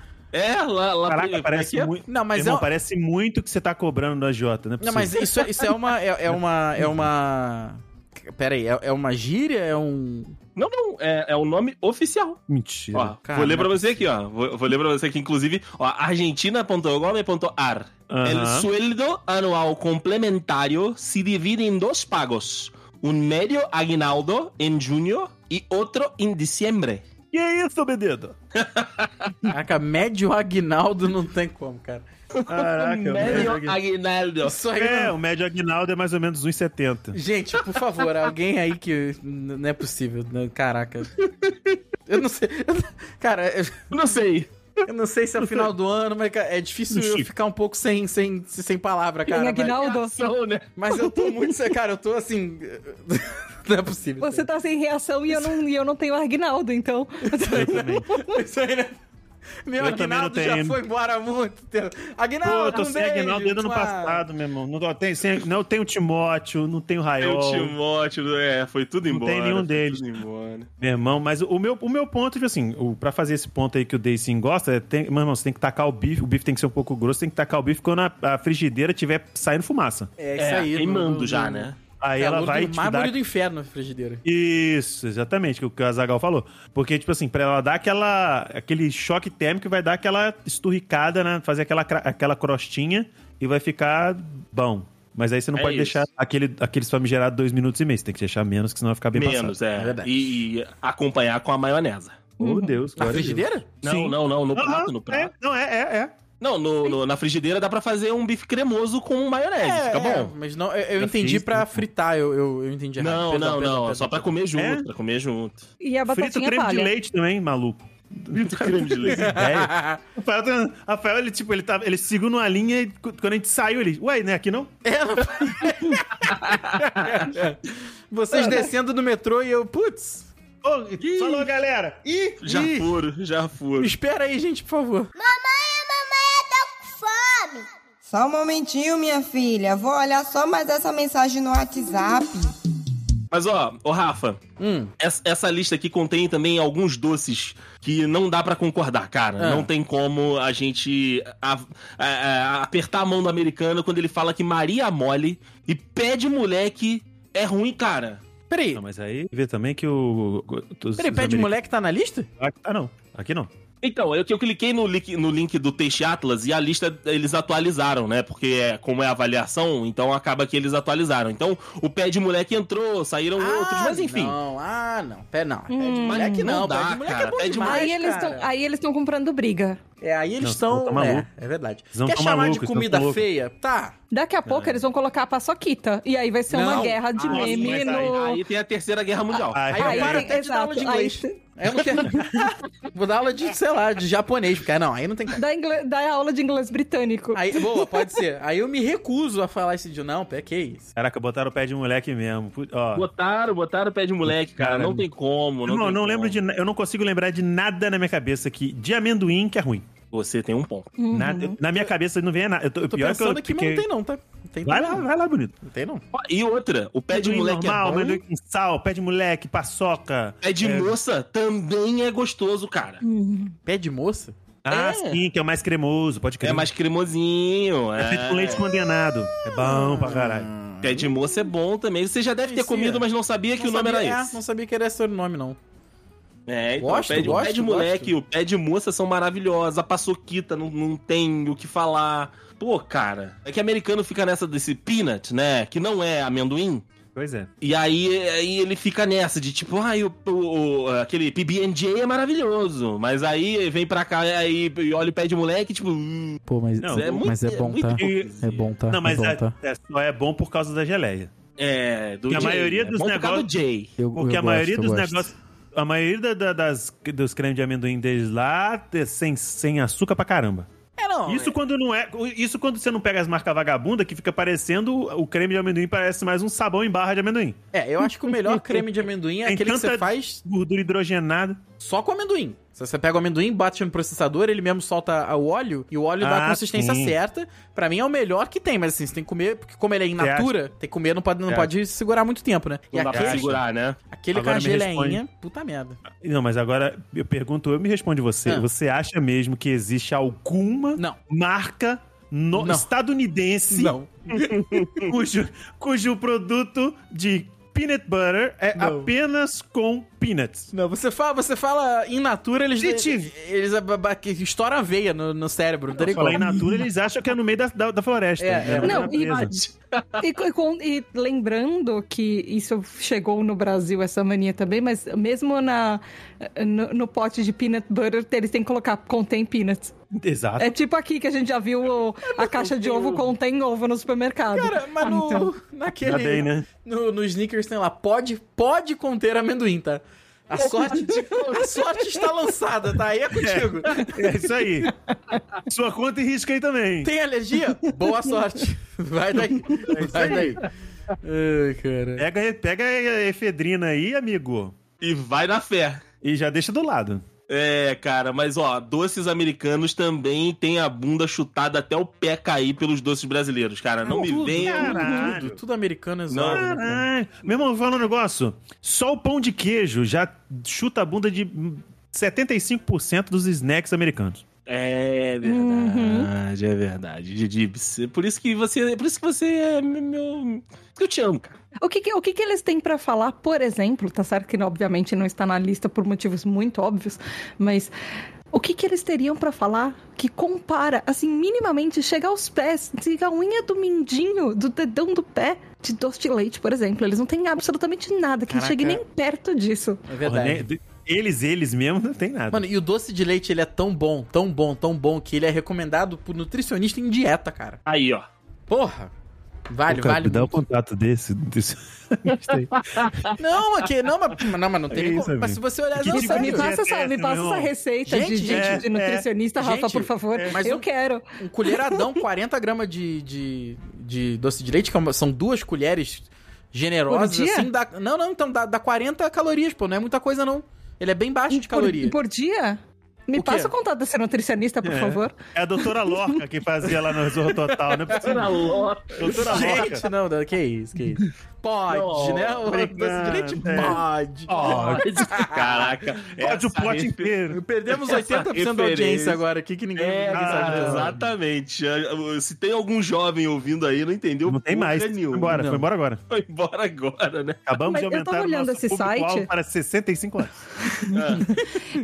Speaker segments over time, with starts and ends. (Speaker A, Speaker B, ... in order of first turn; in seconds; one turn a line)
Speaker A: 0.3-1.9
Speaker B: 1.1-5.3
Speaker C: 2.0-2.7
Speaker C: 4.8-10.3
Speaker B: 6.3-7.0
Speaker A: 10.6-12.4
Speaker B: 12.5-13.2
Speaker A: 12.9-27.0
Speaker C: 13.2-14.0
Speaker B: 18.1-18.7
Speaker B: 27.3-28.3
Speaker A: 28.6-29.5
Speaker C: 29.5-32.1
Speaker A: 32.3-34.6
Speaker B: 32.5-33.6
Speaker C: 33.1-33.8
Speaker C: 34.4-35.1
Speaker B: 34.7-37.2
Speaker C: 37.1-41.2
Speaker A: 41.2-41.5
Speaker C: 42.0-43.9
Speaker A: 43.9-44.5
Speaker C: 44.9-49.9
Speaker B: 46.9-47.3
Speaker D: 49.3-50.1
Speaker A: 49.8-50.7
Speaker C: 50.8-54.5
Speaker D: 54.2-58.2
Speaker C: 55.3-55.6
Speaker C: 57.3-59.0
Speaker B: 57.5-58.1
Speaker C: 59.6-64.2
Speaker B: 59.8-60.8
Speaker B: 62.4-67.7
Speaker A: 67.2-70.7
Speaker B: 69.1-70.0
Speaker B: 70.8-80.1
Speaker C: 80.2-84.2
Speaker A: 80.4-81.8
Speaker B: 82.0-83.2
Speaker B: 84.2-99.6
Speaker A: 95.5-96.0
Speaker A: 99.1-102.2
Speaker C: 99.8-100.1
Speaker B: 102.4-106.1
Speaker D: 102.4-102.8
Speaker C: 103.0-103.7
Speaker A: 103.8-105.3
Speaker A: 106.4-110.3
Speaker C: 109.6-114.3
Speaker B: 111.0-111.9
Speaker A: 113.0-115.6
Speaker B: 114.5-114.9
Speaker D: 115.8-116.9
Speaker B: 116.1-124.7
Speaker A: 118.3-119.3
Speaker C: 119.1-120.0
Speaker C: 124.8-130.3
Speaker A: 126.5-127.2
Speaker B: 128.3-128.7
Speaker B: 130.6-132.0
Speaker A: 131.0-131.4
Speaker C: 132.3-132.9
Speaker A: 132.4-133.9
Speaker C: 133.8-135.1
Speaker E: 135.2-142.5
Speaker A: 143.3-144.4
Speaker C: 144.6-144.9
Speaker A: 145.0-158.2
Speaker C: 149.4-149.7
Speaker C: 158.5-158.8
Speaker B: 158.7-161.5
Speaker C: 161.0-162.3
Speaker B: 162.4-163.5
Speaker A: 163.8-174.4
Speaker C: 173.4-178.5
Speaker D: 175.7-176.5
Speaker A: 176.0-177.9
Speaker D: 177.6-179.8
Speaker C: 180.0-183.9
Speaker B: 180.4-181.3
Speaker B: 181.9-183.2
Speaker D: 184.1-188.4
Speaker B: 184.4-184.8
Speaker C: 186.5-187.0
Speaker B: 187.2-188.2
Speaker A: 187.2-189.7
Speaker B: 189.5-190.3
Speaker C: 189.7-195.4
Speaker D: 189.7-191.4
Speaker D: 192.0-192.3
Speaker D: 195.3-198.1
Speaker C: 197.3-200.9
Speaker B: 200.9-203.1
Speaker A: 202.9-206.4
Speaker B: 204.2-205.0
Speaker B: 205.6-209.9
Speaker A: 210.1-210.9
Speaker D: 211.0-211.6
Speaker B: 211.1-213.9
Speaker C: 212.9-215.0
Speaker B: 214.6-215.6
Speaker C: 215.6-216.0
Speaker A: 216.1-218.2
Speaker B: 217.1-221.0
Speaker A: 220.4-223.0
Speaker D: 223.0-223.6
Speaker C: 223.7-224.3
Speaker B: 224.6-226.7
Speaker A: 224.7-225.2
Speaker A: 226.4-228.6
Speaker B: 228.0-230.5
Speaker C: 229.5-231.2
Speaker A: 230.8-234.4
Speaker C: 232.4-233.0
Speaker C: 233.6-235.6
Speaker A: 236.5-246.8
Speaker C: 236.8-238.1
Speaker B: 237.1-237.5
Speaker B: 247.1-247.5
Speaker A: 247.6-256.4
Speaker C: 256.5-259.5
Speaker B: 256.8-257.3
Speaker A: 256.9-258.7
Speaker B: 257.9-261.3
Speaker A: 261.6-263.9
Speaker B: 262.3-263.5
Speaker C: 264.0-265.3
Speaker B: 264.1-270.7
Speaker C: 271.0-271.6
Speaker B: 271.3-277.6
Speaker C: 277.7-280.4
Speaker B: 278.3-281.6
Speaker C: 281.8-293.6
Speaker B: 286.2-287.2
Speaker B: 290.2-290.5
Speaker B: 291.5-291.7
Speaker A: 292.9-294.0
Speaker B: 293.1-293.6
Speaker C: 294.1-296.0
Speaker B: 294.3-295.2
Speaker B: 296.1-310.7
Speaker C: 302.6-302.9
Speaker C: 303.7-305.0
Speaker C: 308.8-309.1
Speaker C: 310.7-316.6
Speaker B: 312.8-313.3
Speaker B: 316.0-319.5
Speaker C: 318.4-319.1
Speaker D: 318.8-319.6
Speaker A: 319.9-320.2
Speaker D: 320.2-329.9
Speaker B: 330.1-330.7
Speaker D: 330.6-335.5
Speaker A: 332.6-333.2
Speaker C: 334.5-344.5
Speaker B: 336.0-336.7
Speaker D: 340.9-342.3
Speaker B: 343.3-344.9
Speaker B: 345.6-347.1
Speaker C: 347.0-352.3
Speaker B: 349.8-350.5
Speaker B: 352.2-354.8
Speaker A: 355.0-356.0
Speaker B: 356.2-357.2
Speaker A: 357.5-365.4
Speaker B: 364.1-365.6
Speaker C: 364.1-367.0
Speaker A: 366.3-366.8
Speaker B: 366.5-374.4
Speaker A: 374.7-381.6
Speaker D: 375.4-376.3
Speaker D: 381.8-387.9
Speaker D: 388.5-400.0
Speaker C: 398.5-399.0
Speaker C: 400.1-400.7
Speaker B: 400.2-402.7
Speaker C: 402.5-407.8
Speaker A: 407.9-408.3
Speaker C: 408.7-409.1
Speaker C: 409.7-410.6
Speaker B: 409.9-413.3
Speaker A: 412.3-413.4
Speaker C: 413.4-416.7
Speaker B: 414.9-417.7
Speaker D: 416.1-422.1
Speaker C: 418.1-418.9
Speaker B: 418.4-419.3
Speaker C: 419.6-420.9
Speaker B: 420.3-420.6
Speaker C: 421.4-432.1
Speaker D: 427.1-427.7
Speaker D: 431.5-436.4
Speaker C: 433.3-433.7
Speaker B: 434.8-440.1
Speaker C: 437.9-445.9
Speaker A: 438.1-440.0
Speaker A: 441.9-442.6
Speaker B: 442.6-445.3
Speaker A: 444.6-447.3
Speaker B: 446.4-447.6
Speaker C: 447.5-451.2
Speaker A: 447.9-449.4
Speaker A: 449.9-455.6
Speaker B: 450.3-451.3
Speaker B: 454.5-456.2
Speaker C: 455.5-455.8
Speaker A: 456.3-457.6
Speaker B: 457.7-460.6
Speaker D: 457.8-459.5
Speaker D: 461.0-461.7
Speaker A: 461.1-461.5